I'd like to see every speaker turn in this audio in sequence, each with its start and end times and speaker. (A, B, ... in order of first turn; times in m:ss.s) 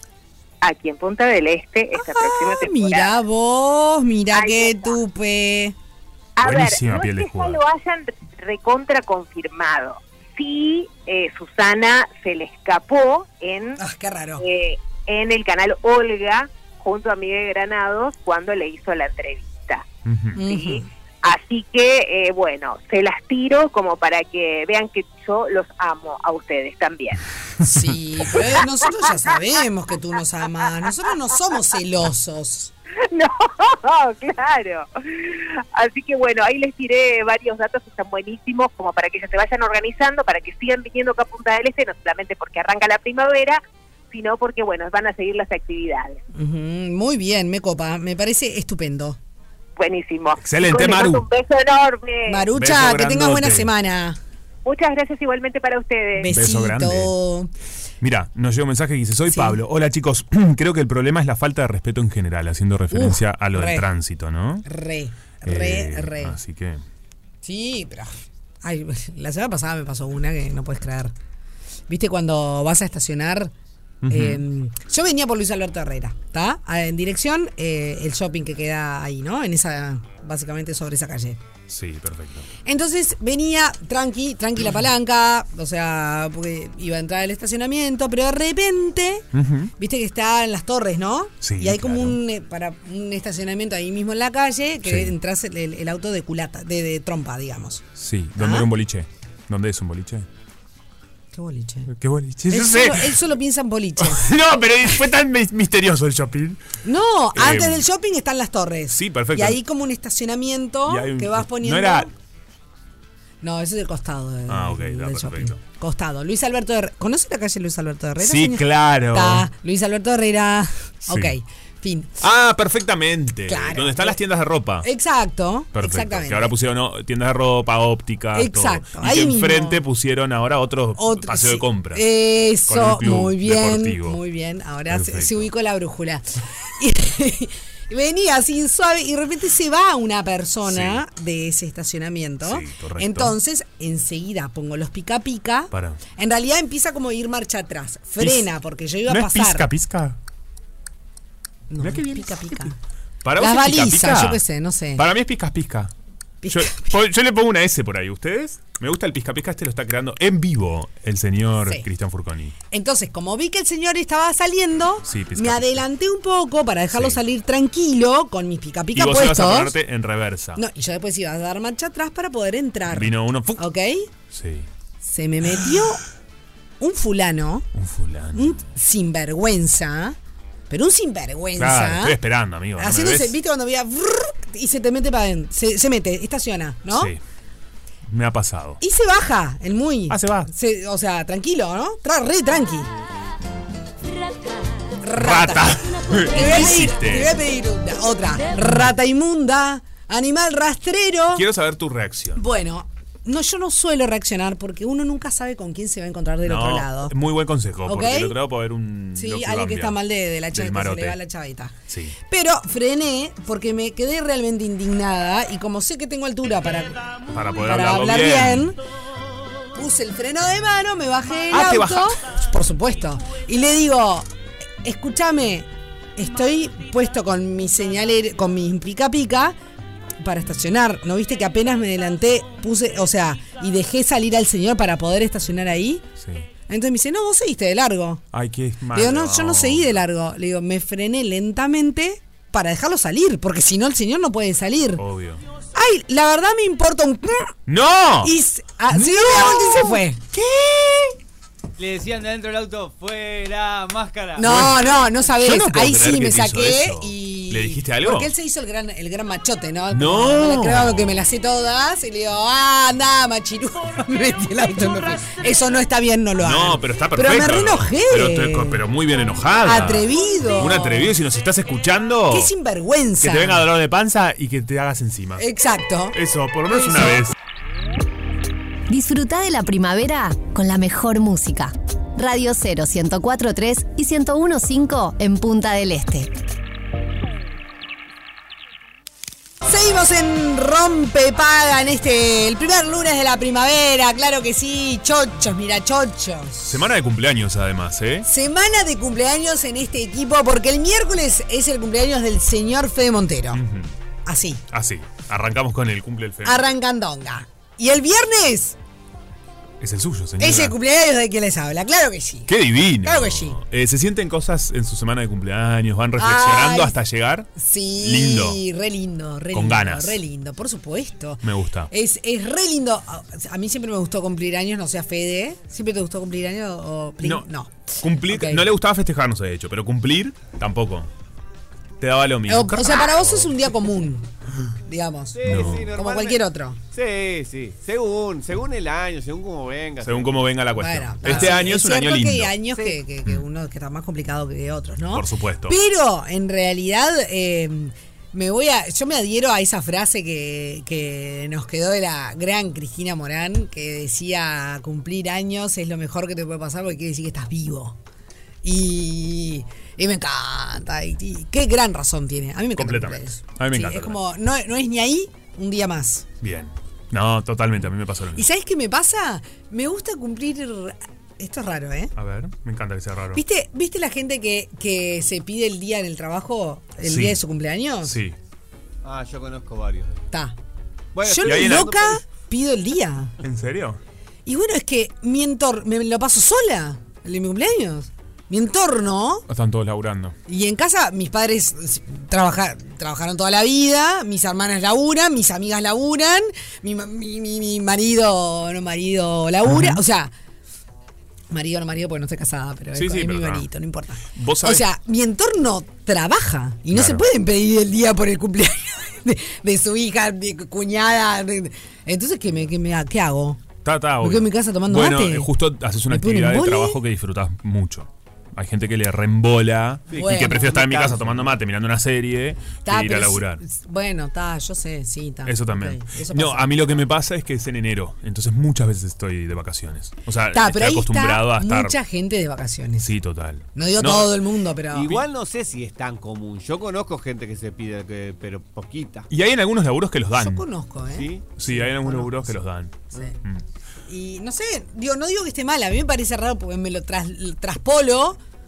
0:00.6-0:03.1 A
0:01.9-0:05.7 B
0:04.3-0:05.0 A
0:06.4-0:13.8 A
0:06.4-0:07.6 C
0:13.8-0:14.4 B
0:14.4-0:19.8 A
0:20.0-0:20.4 C
0:20.3-0:20.9 B
0:20.4-0:27.2 A
0:27.6-0:32.7 B
0:33.0-0:46.2 A
0:46.3-0:49.2 B
0:49.8-0:52.4 A
0:50.4-0:51.2 C
0:52.2-0:54.2 B
0:52.5-0:53.7 C
0:54.6-0:56.3 A
0:56.2-0:57.5 B
0:56.3-0:57.1 C
0:58.0-1:04.6 C
0:59.3-0:59.6 B
1:02.9-1:03.9 B
1:04.6-1:06.4 B
1:05.4-1:06.8 C
1:07.4-1:11.1 B
1:11.9-1:13.5 B
1:14.0-1:14.4 C
1:14.1-1:21.4 B
1:21.7-1:22.5 C
1:22.6-1:29.2 B
1:29.3-1:29.7 C
1:29.8-1:37.8 B
1:31.4-1:32.2 C
1:34.8-1:35.1 C
1:38.0-1:40.3 C
1:38.4-1:38.7 B
1:41.3-1:41.9 B
1:41.9-1:43.2 C
1:42.5-1:44.2 B
1:44.0-1:46.6 C
1:46.8-1:52.1 B
1:47.3-1:47.9 C
1:48.9-1:49.6 C
1:50.8-1:52.1 C
1:53.4-2:02.2 B
1:54.5-1:55.6 C
1:58.2-1:59.5 C
2:01.1-2:01.3 C
2:02.2-2:04.9 C
2:03.5-2:04.2 B
2:04.8-2:06.5 B
2:05.7-2:12.0 C
2:08.3-2:09.8 B
2:11.0-2:29.6 B
2:12.7-2:14.2 C
2:14.9-2:15.5 C
2:20.6-2:21.0 C
2:22.4-2:23.4 C
2:25.7-2:26.0 C
2:28.2-2:28.5 C
2:29.1-2:30.2 C
2:31.7-2:32.7 B
2:31.8-2:34.4 C
2:33.4-2:35.0 B
2:35.0-2:35.9 C
2:36.4-2:37.0 B
2:36.5-2:42.5 C
2:42.7-2:49.8 B
2:45.0-2:45.8 C
2:46.9-2:47.2 C
2:48.9-2:50.6 C
2:50.5-2:54.1 B
2:52.9-2:53.7 C
2:54.3-2:54.7 C
2:55.0-2:56.0 B
2:56.8-2:57.7 B
2:57.7-2:58.7 C
2:58.3-3:00.2 B
3:00.7-3:02.2 B
3:01.6-3:03.4 C
3:02.8-3:07.1 B
3:06.9-3:07.2 C
3:08.1-3:08.8 C
3:08.8-3:12.9 B
3:10.1-3:10.5 C
3:15.0-3:21.4 B
3:15.2-3:17.4 C
3:18.6-3:18.9 C
3:21.3-3:22.4 C
3:22.3-3:27.1 B
3:26.4-3:30.0 C
3:27.8-3:28.3 B
3:29.1-3:31.7 B
3:30.5-3:31.2 C
3:31.9-3:32.1 C
3:32.3-3:38.8 B
3:37.3-3:38.8 C
3:39.7-3:44.2 B
3:41.5-3:42.2 C
3:44.8-3:49.6 B
3:50.2-3:56.0 B
3:56.2-3:56.5 C
3:56.7-3:58.2 B
3:58.3-4:00.0 C
3:58.9-4:05.0 B
4:05.0-4:05.4 C
4:05.7-4:07.6 B
4:07.7-4:08.3 C
4:08.2-4:11.1 B
4:08.9-4:10.0 C
4:11.8-4:14.5 D
4:14.4-4:28.8 B
4:14.4-4:18.3 C
4:19.9-4:21.2 C
4:26.4-4:32.5 C
4:29.6-4:31.1 B
4:32.3-4:33.7 B
4:33.2-4:35.4 C
4:35.4-4:36.2 B
4:36.1-4:37.3 C
4:36.7-4:37.2 B
4:38.9-4:46.3 E
4:49.6-4:56.8 B
4:56.6-4:58.3 C
4:58.2-5:03.6 B
5:03.5-5:03.9 C
5:04.2-5:04.6 B
5:04.7-5:06.7 C
5:06.4-5:08.8 B
5:09.8-5:10.8 C
5:10.4-5:13.6 B
5:12.5-5:18.6 C
5:16.2-5:17.0 B
5:17.6-5:28.6 B
5:19.5-5:20.2 C
5:21.4-5:21.9 C
5:27.2-5:27.5 C
5:28.0-5:31.1 C
5:32.0-5:33.5 C
5:32.5-5:36.8 B
5:35.4-5:36.4 F
5:35.4-5:35.9 C
5:36.9-5:40.4 F
5:40.0-5:42.6 C
5:40.8-5:58.0 B
5:41.2-5:41.7 F
5:45.1-5:45.8 C
5:58.6-6:06.2 B
6:02.8-6:04.2 C
6:06.4-6:08.5 C
6:08.3-6:12.1 B
6:12.2-6:13.4 C
6:13.3-6:18.2 B
6:17.0-6:17.4 C
6:18.0-6:18.4 C
6:19.0-6:20.3 F
6:21.1-6:22.1 F
6:21.2-6:23.3 B
6:21.4-6:22.2 C
6:23.4-6:24.0 C
6:24.4-6:29.4 B
6:29.5-6:30.3 C
6:30.5-6:40.3 B
6:39.6-6:40.0 C
6:41.5-6:53.6 B
6:42.9-6:43.7 C
6:44.3-6:44.9 C
6:46.9-6:47.3 C
6:53.8-7:03.6 C
6:54.2-6:55.5 B
6:56.1-6:57.0 B
7:00.1-7:01.5 F
7:00.1-7:00.8 B
7:02.8-7:06.7 B
7:05.4-7:12.0 C
7:10.5-7:13.1 B
7:13.0-7:14.4 C
7:13.7-7:15.2 B
7:14.9-7:19.3 F
7:19.3-7:20.7 C
7:20.4-7:22.6 B
7:21.1-7:21.5 F
7:21.6-7:23.6 C
7:23.1-7:23.4 B
7:24.1-7:28.4 B